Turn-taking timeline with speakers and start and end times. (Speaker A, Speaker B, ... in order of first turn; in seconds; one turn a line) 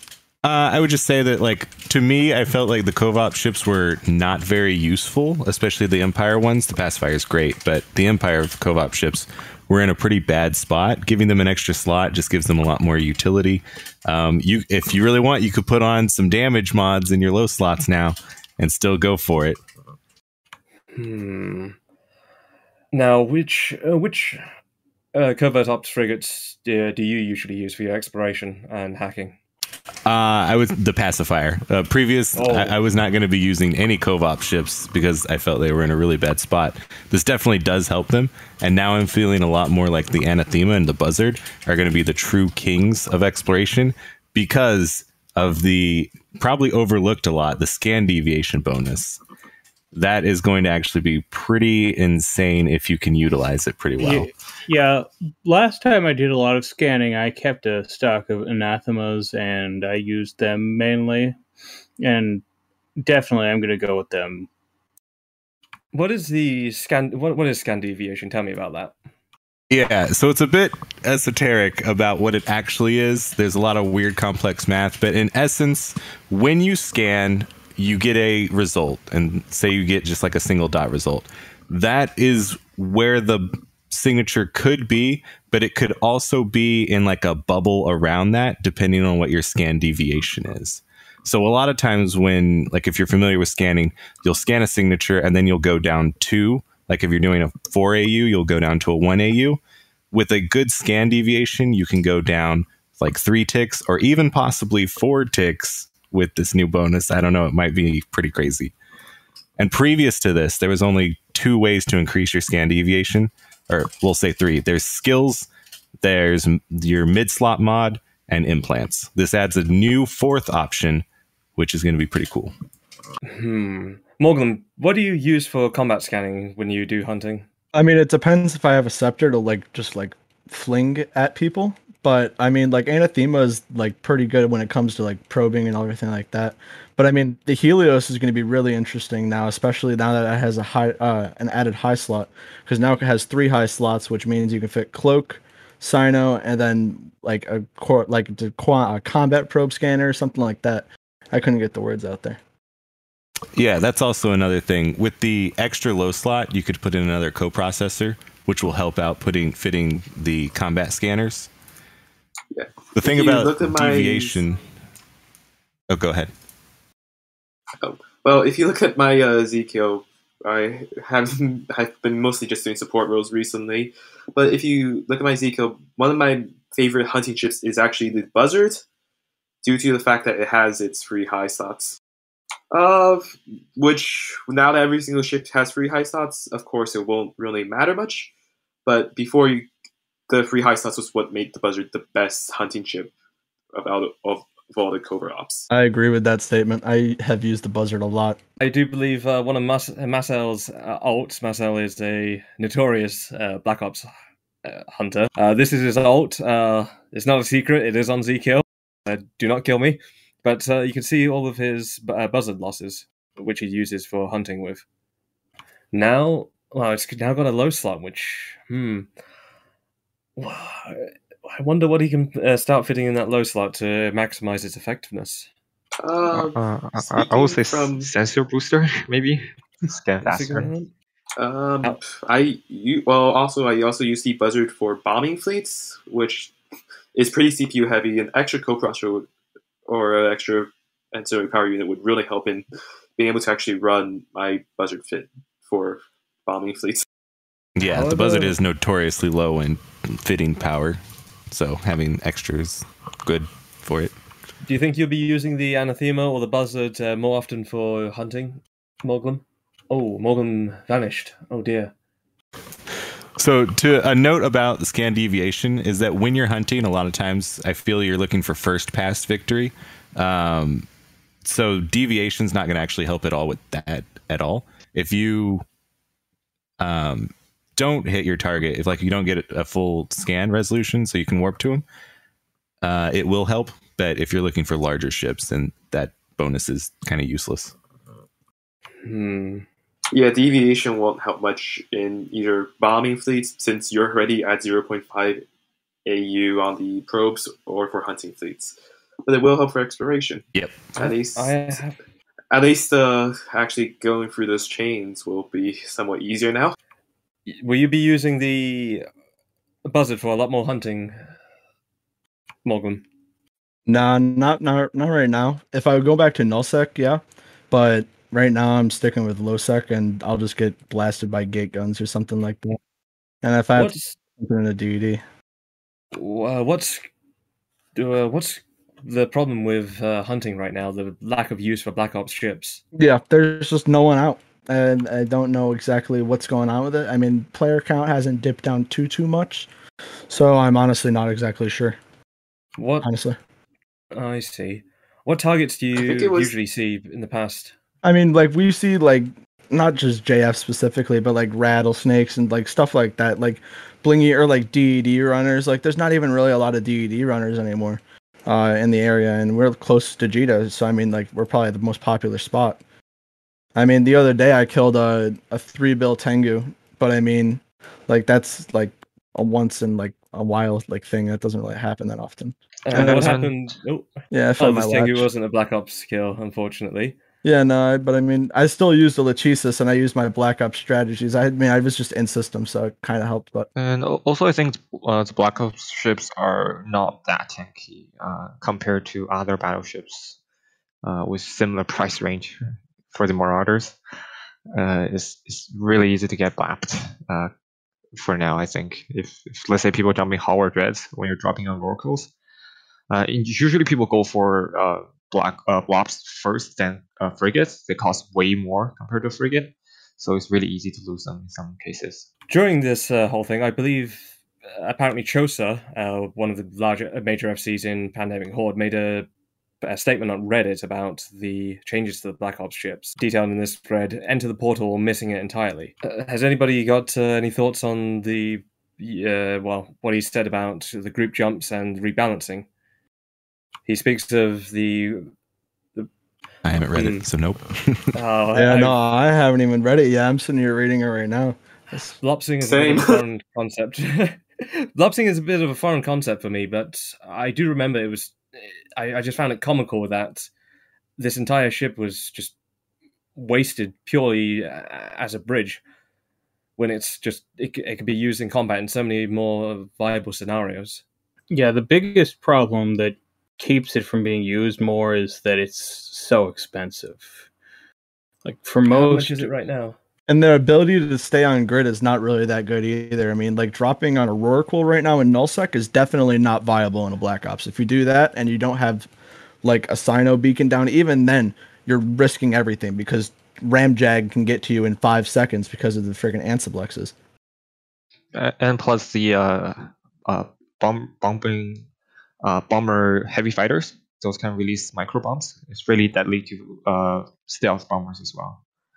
Speaker A: 0.4-19.6
Speaker B: 20.9-21.8
Speaker B: 22.9-24.4
Speaker B: 25.1-29.4
Speaker A: 30.1-49.2
Speaker B: 32.3-32.7
Speaker A: 49.9-54.3
Speaker C: 54.0-61.4
Speaker C: 62.0-62.4
Speaker C: 63.0-64.5
Speaker B: 65.9-68.9
Speaker A: 69.7-99.6
Speaker A: 100.1-108.7
Speaker A: 109.6-115.5
Speaker A: 116.0-122.5
Speaker B: 123.2-127.5
Speaker D: 127.7-152.4
Speaker A: 153.5-161.5
Speaker E: 162.5-164.4
Speaker A: 162.9-164.6
Speaker A: 165.9-166.3
Speaker E: 167.8-178.8
Speaker E: 179.6-182.0
Speaker E: 182.7-188.3
Speaker E: 188.8-189.7
Speaker E: 190.3-193.1
Speaker E: 193.7-195.7
Speaker D: 195.7-198.4
Speaker B: 198.6-204.1
Speaker B: 204.6-214.8
Speaker B: 215.9-219.1
Speaker B: 220.4-225.5
Speaker E: 226.0-228.1
Speaker F: 226.3-230.7
Speaker B: 230.2-230.9
Speaker E: 231.4-236.5
Speaker E: 237.1-239.3
Speaker E: 239.9-247.0
Speaker A: 247.8-254.1
Speaker B: 247.8-248.6
Speaker B: 254.7-261.9
Speaker A: 263.4-270.9
Speaker A: 271.4-275.6
Speaker A: 276.8-281.8
Speaker A: 282.8-287.7
Speaker B: 289.0-289.6
Speaker E: 290.1-295.4
Speaker E: 296.1-298.7
Speaker E: 299.3-300.4
Speaker A: 300.5-300.9
Speaker E: 301.0-301.8
Speaker B: 301.0-302.0
Speaker E: 302.5-306.8
Speaker B: 307.5-309.1
Speaker B: 309.8-311.2
Speaker B: 312.6-313.0
Speaker D: 313.9-322.8
Speaker D: 323.4-325.2
Speaker B: 323.7-324.2
Speaker B: 326.1-327.1
Speaker B: 327.9-332.8
Speaker D: 332.9-339.7
Speaker D: 340.3-342.0
Speaker B: 342.8-343.1
Speaker D: 343.0-343.4
Speaker B: 344.1-347.7
Speaker E: 345.9-346.5
Speaker D: 348.0-362.8
Speaker D: 363.8-373.3
Speaker B: 372.9-377.1
Speaker F: 372.9-373.7
Speaker D: 374.3-375.3
Speaker D: 377.4-383.7
Speaker F: 383.8-390.4
Speaker F: 391.0-392.6
Speaker F: 393.1-394.0
Speaker F: 394.7-397.5
Speaker F: 398.2-402.3
Speaker F: 403.1-412.3
Speaker B: 412.5-419.3
Speaker B: 419.8-432.7
Speaker B: 433.9-435.3
Speaker A: 436.6-438.1
Speaker B: 436.9-437.2
Speaker B: 438.1-439.0
Speaker D: 438.5-442.1
Speaker B: 442.2-450.5
Speaker E: 442.6-443.2
Speaker B: 451.2-452.5
Speaker B: 453.3-455.8
Speaker B: 456.8-461.0
Speaker C: 461.5-467.5
Speaker C: 468.4-469.4
Speaker B: 468.9-469.9
Speaker D: 470.3-479.1
Speaker D: 479.6-487.1
Speaker F: 488.3-491.9
Speaker F: 492.4-498.6